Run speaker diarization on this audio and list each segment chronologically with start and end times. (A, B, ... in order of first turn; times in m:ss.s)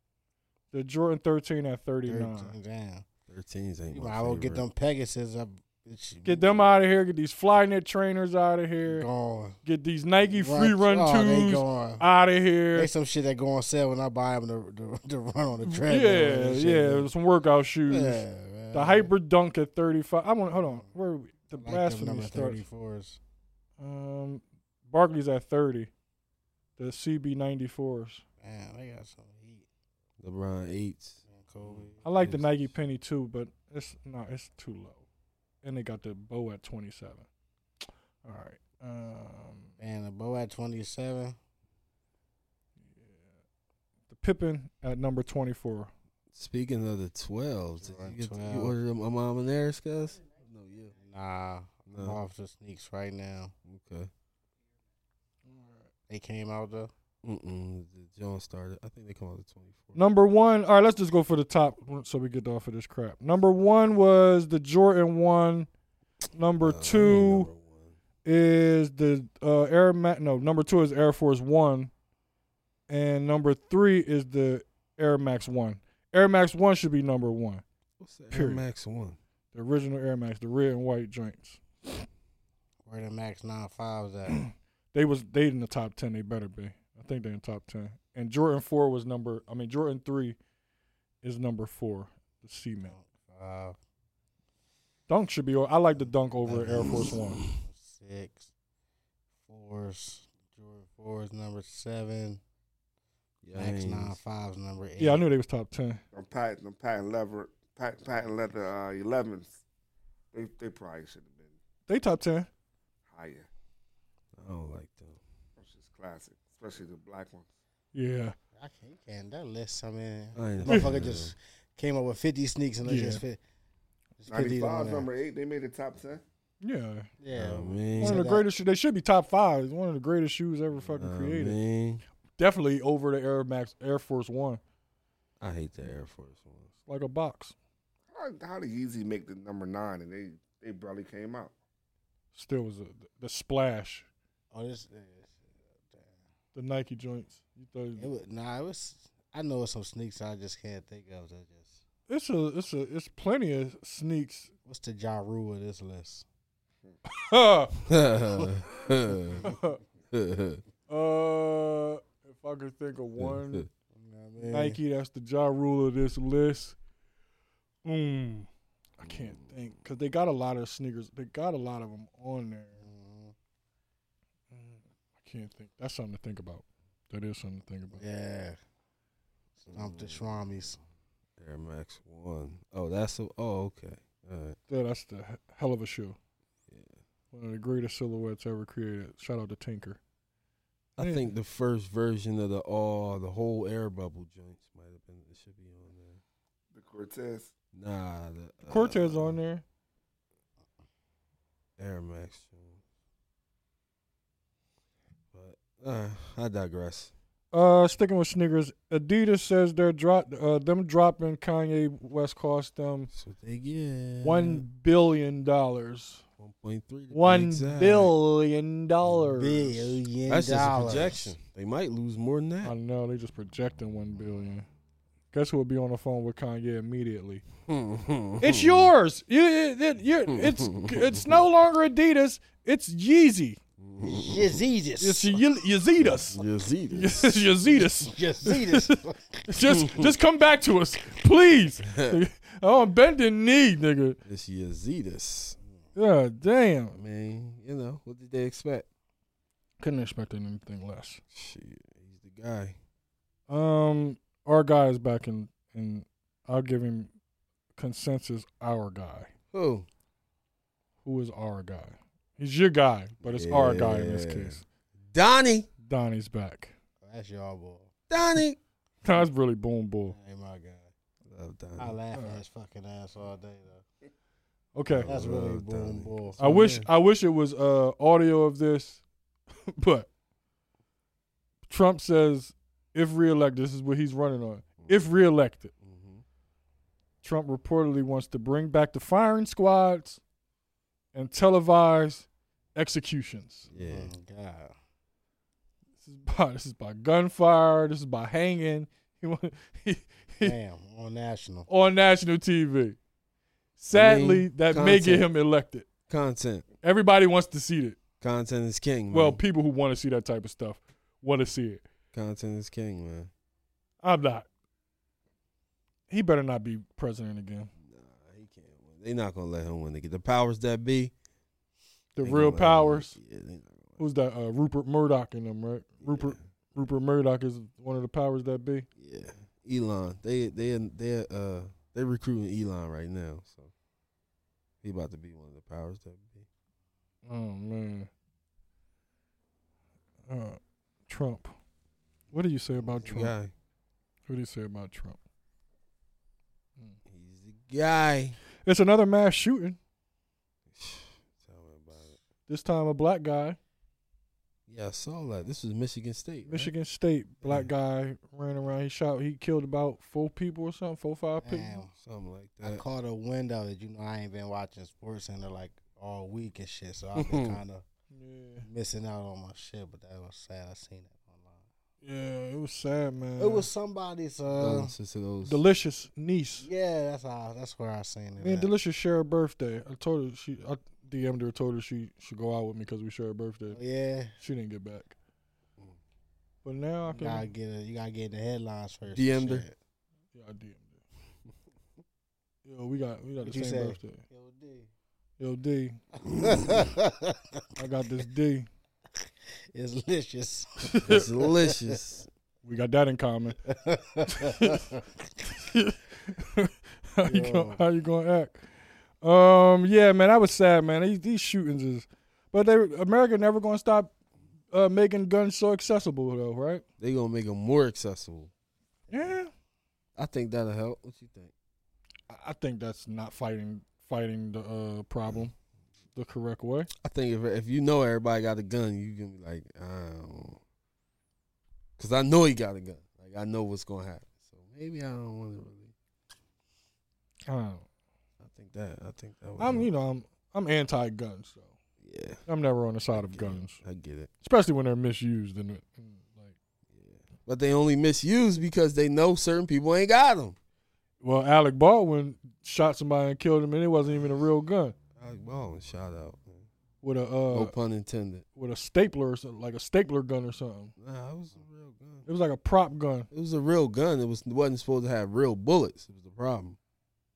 0:00.7-0:02.5 A
0:02.1-0:03.0 B
0:03.3-0:04.6 C
0:03.9-0:06.6 B
0:06.2-0:09.1 A
0:08.8-0:09.6 B
0:09.6-0:12.9 A
0:10.3-0:12.0 B
0:12.7-0:17.1 B
0:15.6-0:22.6 A
0:17.9-0:19.1 B
0:21.6-0:23.2 B
0:23.8-0:25.9 A
0:26.8-0:28.2 A
0:28.4-0:29.6 B
0:30.2-0:32.7 C
0:31.3-0:32.0 B
0:32.0-0:35.0 A
0:35.6-0:37.2 A
0:38.2-0:39.7 A
0:39.8-0:41.4 B
0:44.1-0:45.9 A
0:46.3-0:50.9 C
0:47.8-0:48.7 B
0:51.0-0:53.5 B
0:51.9-0:52.2 C
0:53.7-0:54.1 C
0:55.5-0:55.8 A
0:56.1-0:56.9 B
0:57.2-1:00.0 C
0:59.9-1:05.7 A
1:06.3-1:07.5 A
1:06.6-1:08.0 C
1:08.2-1:11.9 A
1:12.9-1:17.6 A
1:18.0-1:19.2 C
1:18.3-1:18.6 A
1:19.5-1:22.0 A
1:22.8-1:24.4 B
1:24.3-1:30.4 A
1:31.2-1:32.9 A
1:32.8-1:33.8 B
1:35.1-1:37.4 A
1:36.4-1:38.5 B
1:37.1-1:37.5 C
1:39.5-1:42.4 B
1:43.4-1:44.2 C
1:43.5-1:45.2 B
1:45.0-1:46.0 A
1:46.1-1:49.6 D
1:50.3-1:51.5 D
1:51.9-1:52.5 A
1:53.1-1:53.5 D
1:54.4-1:55.2 C
1:55.6-1:57.5 D
1:57.9-1:58.4 A
1:58.6-2:03.4 B
2:00.3-2:01.3 C
2:02.8-2:03.2 A
2:04.2-2:05.1 B
2:04.3-2:06.2 D
2:06.6-2:07.1 A
2:07.2-2:08.4 B
2:07.3-2:08.2 C
2:08.0-2:11.6 A
2:10.9-2:12.0 C
2:12.4-2:14.6 A
2:15.4-2:16.7 C
2:16.9-2:17.5 A
2:18.1-2:21.5 D
2:22.3-2:24.0 A
2:24.5-2:25.4 B
2:26.5-2:28.1 A
2:28.0-2:31.8 B
2:32.1-2:34.5 A
2:34.6-2:36.2 B
2:37.0-2:37.8 A
2:37.8-2:39.5 C
2:39.4-2:39.8 A
2:40.1-2:40.6 C
2:40.9-2:43.7 A
2:43.2-2:43.7 C
2:43.9-2:44.8 B
2:44.4-2:46.8 A
2:47.8-2:52.8 A
2:49.0-2:49.5 C
2:52.8-2:53.3 B
2:54.5-2:58.0 A
2:57.9-2:58.6 B
2:59.6-3:00.8 B
2:59.7-3:00.2 C
3:01.4-3:04.6 C
3:04.7-3:06.2 A
3:06.7-3:07.0 C
3:07.3-3:10.0 A
3:11.0-3:16.2 C
3:11.0-3:11.3 A
3:16.7-3:17.5 D
3:17.7-3:19.4 C
3:18.7-3:19.6 A
3:21.8-3:22.8 C
3:25.3-3:27.1 C
3:27.5-3:33.1 A
3:33.1-3:34.6 C
3:34.2-3:36.2 A
3:36.4-3:38.1 C
3:37.1-3:40.0 A
3:39.2-3:41.3 B
3:40.3-3:42.7 C
3:42.6-3:44.7 A
3:45.3-3:47.4 A
3:47.6-3:48.9 C
3:48.4-3:53.6 A
3:50.3-3:51.4 C
3:53.8-3:54.6 C
3:54.0-3:55.4 B
3:55.0-4:04.2 A
3:56.0-3:57.4 C
3:57.6-3:59.4 B
3:59.7-4:00.1 C
4:01.8-4:02.2 C
4:04.2-4:05.6 C
4:06.0-4:07.0 A
4:06.9-4:08.9 C
4:09.8-4:11.2 A
4:11.3-4:12.8 C
4:13.5-4:17.1 A
4:17.8-4:19.3 A
4:19.5-4:19.9 C
4:21.0-4:24.6 A
4:23.2-4:24.6 C
4:25.1-4:25.7 C
4:25.8-4:26.7 A
4:27.0-4:27.9 B
4:28.1-4:28.6 C
4:29.0-4:30.2 A
4:30.1-4:30.9 B
4:31.3-4:31.9 C
4:31.8-4:33.8 B
4:32.1-4:32.4 A
4:34.7-4:35.1 A
4:34.9-4:36.9 C
4:35.0-4:36.4 B
4:36.4-4:39.0 A
4:39.7-4:40.1 A
4:41.7-4:45.7 A
4:44.8-4:45.1 C
4:45.8-4:46.2 C
4:47.2-4:50.2 A
4:51.1-4:53.7 A
4:53.7-4:54.1 C
4:53.7-4:54.7 B
4:56.0-5:00.5 A
5:00.4-5:01.7 B
5:01.7-5:03.0 A
5:03.8-5:05.8 A
5:03.9-5:05.3 C
5:06.1-5:06.6 C
5:06.8-5:08.0 A
5:08.2-5:09.4 C
5:09.1-5:11.8 A
5:12.1-5:13.3 C
5:14.0-5:14.5 A
5:16.1-5:17.7 A
5:17.8-5:21.1 C
5:22.2-5:23.1 A
5:22.2-5:24.0 C
5:24.0-5:28.8 A
5:26.0-5:26.4 C
5:29.0-5:33.7 C
5:34.8-5:36.5 C
5:37.2-5:38.1 A
5:40.3-5:41.5 A
5:42.3-5:43.3 A
5:43.0-5:43.5 C
5:44.3-5:45.2 A
5:47.1-5:48.4 C
5:48.6-5:49.8 A
5:50.7-5:52.2 C
5:52.5-5:53.6 A
5:54.7-5:56.7 C
5:56.4-6:01.8 A
6:01.4-6:01.9 B
6:02.0-6:02.8 C
6:02.6-6:07.8 B
6:07.1-6:07.6 C
6:08.1-6:08.6 A
6:08.6-6:11.6 B
6:12.0-6:13.7 A
6:13.4-6:14.9 B
6:14.6-6:15.6 C
6:15.4-6:16.7 A
6:16.6-6:18.7 B
6:18.4-6:23.8 A
6:23.7-6:24.3 B
6:24.4-6:25.1 A
6:26.6-6:27.5 A
6:27.1-6:29.7 B
6:29.1-6:29.6 C
6:30.3-6:31.0 A
6:32.6-6:34.2 A
6:33.4-6:34.9 B
6:35.4-6:36.0 A
6:36.3-6:37.6 B
6:37.8-6:38.7 A
6:39.7-6:42.0 B
6:40.8-6:41.2 A
6:41.1-6:42.3 C
6:42.6-6:43.6 A
6:43.6-6:45.0 B
6:44.3-6:44.8 A
6:45.5-6:48.6 A
6:47.2-6:47.8 B
6:49.2-6:54.1 A
6:54.7-6:56.8 A
6:57.0-6:58.5 C
6:59.1-6:59.5 A
7:00.2-7:01.5 C
7:02.3-7:05.5 A
7:06.1-7:06.9 A
7:07.0-7:10.6 C
7:12.0-7:15.9 C
7:17.5-7:17.8 A
7:18.4-7:19.9 C
7:19.6-7:21.7 A
7:22.0-7:22.4 C
7:22.5-7:23.8 A
7:23.1-7:24.3 C
7:24.4-7:26.5 A
7:26.9-7:30.6 C
7:31.2-7:35.0 A
7:35.2-7:36.6 C
7:37.0-7:37.7 A
7:37.5-7:38.4 C
7:38.6-7:40.9 A
7:41.0-7:42.2 C
7:42.2-7:43.3 A
7:43.3-7:46.8 C